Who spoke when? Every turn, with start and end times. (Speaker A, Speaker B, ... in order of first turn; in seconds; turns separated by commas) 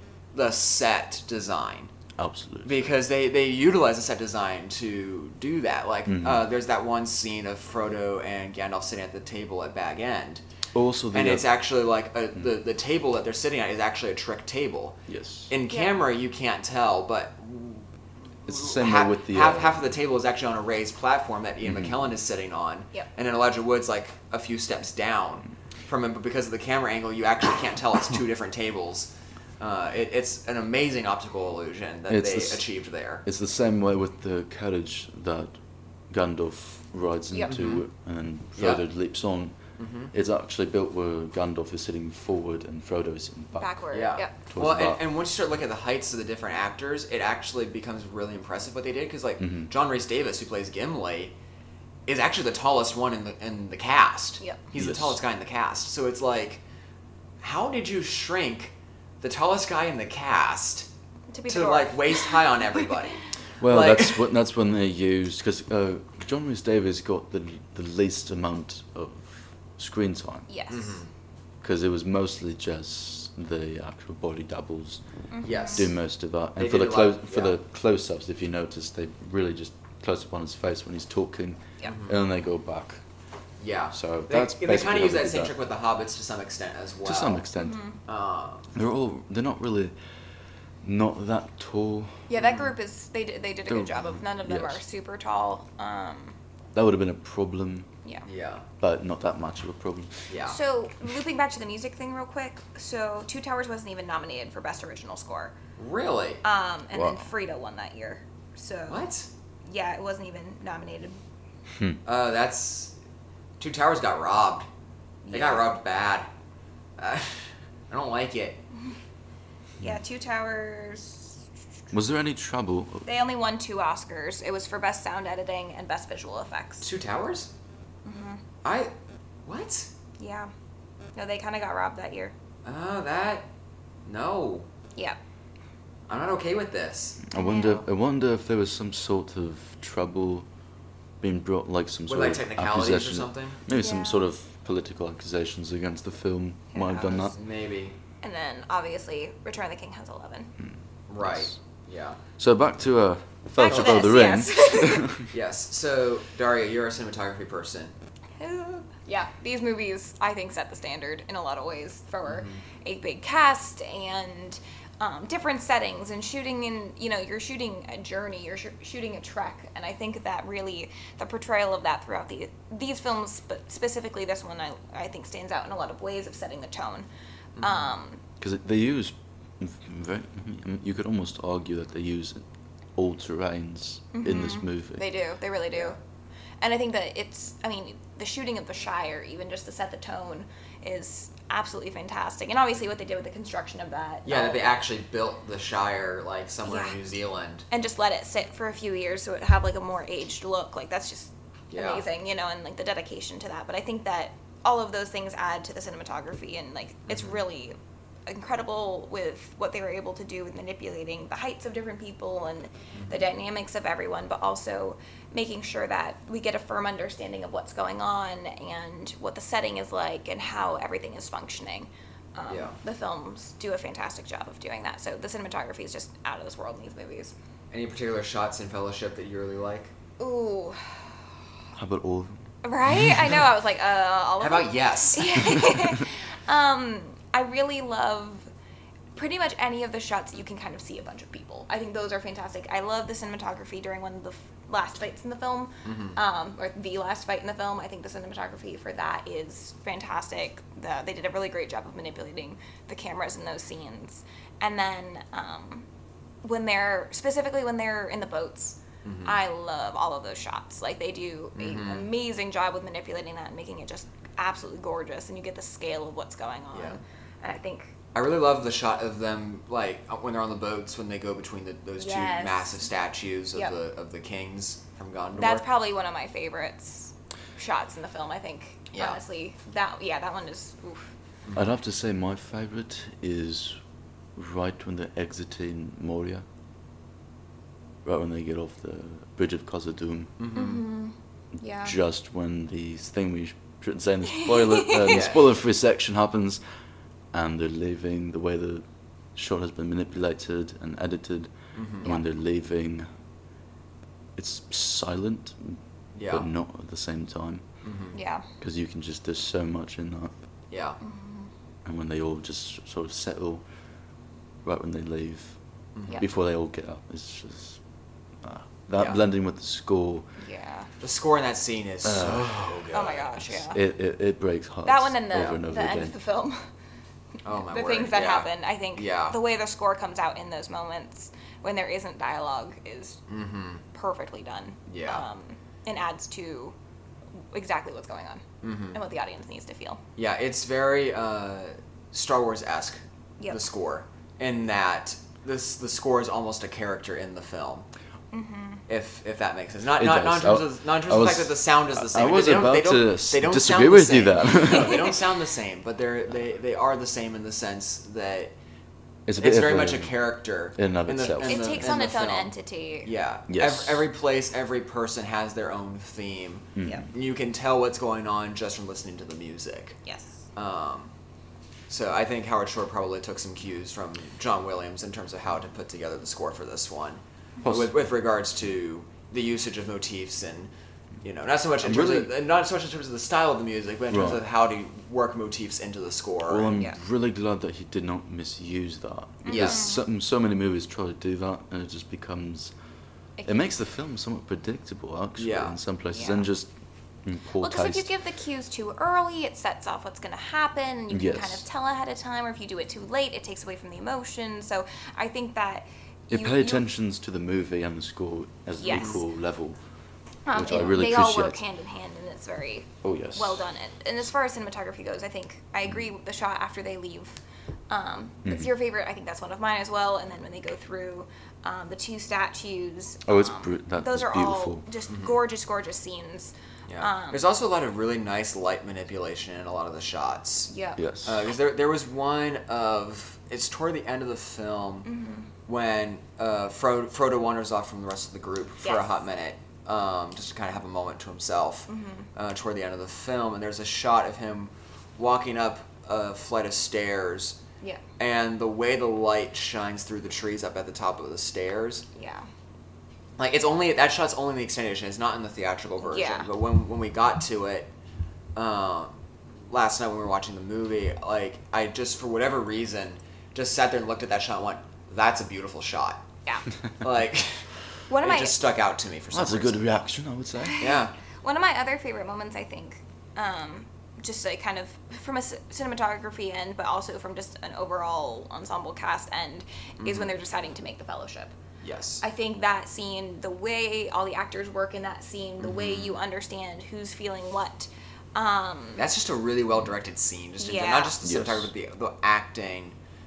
Speaker A: 0.3-1.9, Speaker B: 2.2-2.9, Speaker A: 2.6-10.4, Speaker B: 6.1-6.5, Speaker B: 10.7-11.5, Speaker A: 11.1-17.9, Speaker B: 15.1-15.5, Speaker C: 15.7-16.0, Speaker B: 18.5-19.8, Speaker A: 18.5-33.2, Speaker B: 21.6-22.0, Speaker B: 32.1-32.6, Speaker B: 33.2-35.5, Speaker B: 36.1-39.6, Speaker C: 37.3-37.7, Speaker A: 37.5-37.8, Speaker A: 38.5-38.8, Speaker A: 39.8-40.1, Speaker B: 40.1-43.8, Speaker C: 43.6-44.3, Speaker A: 43.9-51.3, Speaker B: 44.5-45.0, Speaker B: 49.4-49.7, Speaker A: 52.1-56.6, Speaker B: 54.8-55.2, Speaker A: 57.4-60.9, Speaker C: 61.3-62.9, Speaker A: 61.5-64.3, Speaker B: 63.6-70.5, Speaker C: 70.5-71.0, Speaker A: 70.7-71.1, Speaker B: 71.6-75.0, Speaker C: 75.3-75.8, Speaker A: 75.4-75.9, Speaker B: 75.7-83.0, Speaker A: 76.5-77.5, Speaker A: 81.8-82.1, Speaker A: 83.6-87.5, Speaker B: 83.9-85.5, Speaker B: 87.0-87.8, Speaker C: 87.6-88.0, Speaker A: 88.0-88.7, Speaker B: 88.7-89.9, Speaker B: 90.8-92.3, Speaker C: 92.3-96.3, Speaker A: 92.3-92.7, Speaker B: 93.7-94.8, Speaker B: 96.7-97.9, Speaker A: 98.2-98.6, Speaker B: 98.8-100.3, Speaker A: 100.3-100.6, Speaker C: 100.5-105.5, Speaker A: 105.8-106.4, Speaker C: 106.4-109.0, Speaker B: 106.9-107.3, Speaker A: 108.9-109.3, Speaker C: 109.7-111.2, Speaker A: 112.0-112.9, Speaker A: 113.6-114.7, Speaker C: 115.2-115.7, Speaker A: 115.3-116.3, Speaker A: 117.0-118.6, Speaker C: 119.8-121.4, Speaker B: 121.9-123.0, Speaker C: 123.0-126.8, Speaker A: 126.8-127.5, Speaker C: 128.0-128.4, Speaker A: 128.6-128.9, Speaker A: 129.4-129.9, Speaker C: 130.2-130.5, Speaker C: 131.1-132.3, Speaker A: 132.7-133.5, Speaker A: 134.1-134.7, Speaker A: 136.1-137.2, Speaker B: 137.3-140.4, Speaker C: 137.3-137.8, Speaker B: 141.2-147.3, Speaker A: 142.1-143.6, Speaker C: 143.7-144.2, Speaker C: 146.7-147.2, Speaker A: 147.0-147.9, Speaker C: 148.2-150.5, Speaker B: 150.6-151.5, Speaker A: 151.1-152.2, Speaker B: 152.4-155.3, Speaker C: 153.6-155.2, Speaker A: 153.7-153.9, Speaker A: 155.3-157.9, Speaker C: 158.4-177.1, Speaker A: 162.3-162.6, Speaker A: 177.6-177.9, Speaker C: 177.6-178.2, Speaker B: 178.4-182.4, Speaker B: 182.9-185.0, Speaker C: 184.1-186.0, Speaker C: 186.6-194.8, Speaker A: 194.2-197.6, Speaker C: 196.6-196.9, Speaker C: 197.7-207.8, Speaker A: 201.7-202.0, Speaker A: 207.1-207.4, Speaker C: 208.3-227.3, Speaker A: 212.9-213.2, Speaker A: 222.5-222.8, Speaker A: 227.7-229.9, Speaker C: 230.2-231.1, Speaker B: 231.7-232.3, Speaker C: 232.6-238.5, Speaker B: 232.9-233.2, Speaker A: 234.4-235.5, Speaker C: 239.1-255.8, Speaker A: 245.8-246.2, Speaker C: 256.4-267.9, Speaker A: 259.0-259.4, Speaker A: 261.6-262.1, Speaker A: 266.7-267.0, Speaker A: 268.1-275.6, Speaker C: 272.0-272.9, Speaker C: 275.4-281.1, Speaker A: 278.9-279.2, Speaker A: 281.4-281.7, Speaker B: 281.5-283.8, Speaker B: 284.4-286.4, Speaker B: 288.0-290.3, Speaker A: 290.4-290.8, Speaker C: 290.5-291.9, Speaker B: 291.8-296.6, Speaker C: 294.4-295.3, Speaker A: 295.1-295.4, Speaker B: 297.3-303.1, Speaker A: 301.7-302.1, Speaker B: 304.4-307.6, Speaker A: 306.1-306.5, Speaker A: 307.8-308.1, Speaker C: 308.1-308.5, Speaker B: 308.6-310.3, Speaker A: 310.7-311.0, Speaker C: 311.0-311.5, Speaker B: 311.8-313.6, Speaker B: 314.6-315.6, Speaker A: 315.9-316.2, Speaker B: 316.2-317.8, Speaker B: 318.4-320.3, Speaker C: 320.4-320.9, Speaker A: 321.0-323.5, Speaker B: 322.0-322.8, Speaker C: 322.9-323.8, Speaker B: 323.6-326.1, Speaker C: 324.8-326.6, Speaker A: 327.4-329.4, Speaker C: 327.7-333.2, Speaker A: 333.3-333.8, Speaker C: 333.9-336.7, Speaker A: 334.9-335.2, Speaker C: 337.5-340.0, Speaker A: 338.6-339.0, Speaker A: 340.2-347.9, Speaker C: 348.3-348.8, Speaker A: 348.9-358.5, Speaker B: 350.0-355.1, Speaker C: 354.7-355.1, Speaker B: 359.3-360.2, Speaker A: 359.4-362.5, Speaker B: 360.8-361.9, Speaker C: 361.4-363.1, Speaker A: 363.0-369.9, Speaker B: 363.5-364.1, Speaker B: 366.8-367.1, Speaker C: 370.0-370.4, Speaker A: 370.5-371.1, Speaker A: 371.9-380.7, Speaker B: 377.6-377.9, Speaker A: 381.2-386.7, Speaker B: 381.8-382.3, Speaker B: 384.1-384.4, Speaker B: 386.4-392.7, Speaker C: 389.4-390.0, Speaker A: 389.4-389.9, Speaker C: 393.4-393.6, Speaker B: 393.4-396.7, Speaker A: 395.4-395.8, Speaker C: 396.1-396.5, Speaker B: 397.2-398.1, Speaker C: 397.6-406.8, Speaker B: 401.1-401.6, Speaker B: 406.3-409.8, Speaker C: 408.8-409.2, Speaker A: 408.9-409.2, Speaker C: 410.4-417.4, Speaker B: 410.5-411.6, Speaker B: 413.0-413.6, Speaker C: 417.9-427.4, Speaker B: 423.2-424.8, Speaker A: 425.1-425.3, Speaker A: 426.9-430.7, Speaker C: 430.7-431.0, Speaker B: 431.0-431.4, Speaker A: 431.2-435.1, Speaker C: 435.1-435.5, Speaker A: 435.6-447.6, Speaker C: 438.8-439.1, Speaker C: 441.9-442.3, Speaker A: 448.2-452.0, Speaker C: 452.1-452.5, Speaker A: 453.4-457.9, Speaker C: 456.1-456.5, Speaker A: 458.5-459.2, Speaker A: 459.7-466.2, Speaker A: 467.0-467.7, Speaker C: 468.1-468.6, Speaker A: 468.2-469.8, Speaker B: 469.3-470.8, Speaker C: 470.6-481.5, Speaker A: 470.8-471.1, Speaker A: 480.0-480.3, Speaker A: 481.8-482.2, Speaker C: 482.2-489.0, Speaker A: 485.6-486.2, Speaker A: 488.9-492.9, Speaker C: 490.6-491.1, Speaker B: 491.2-491.7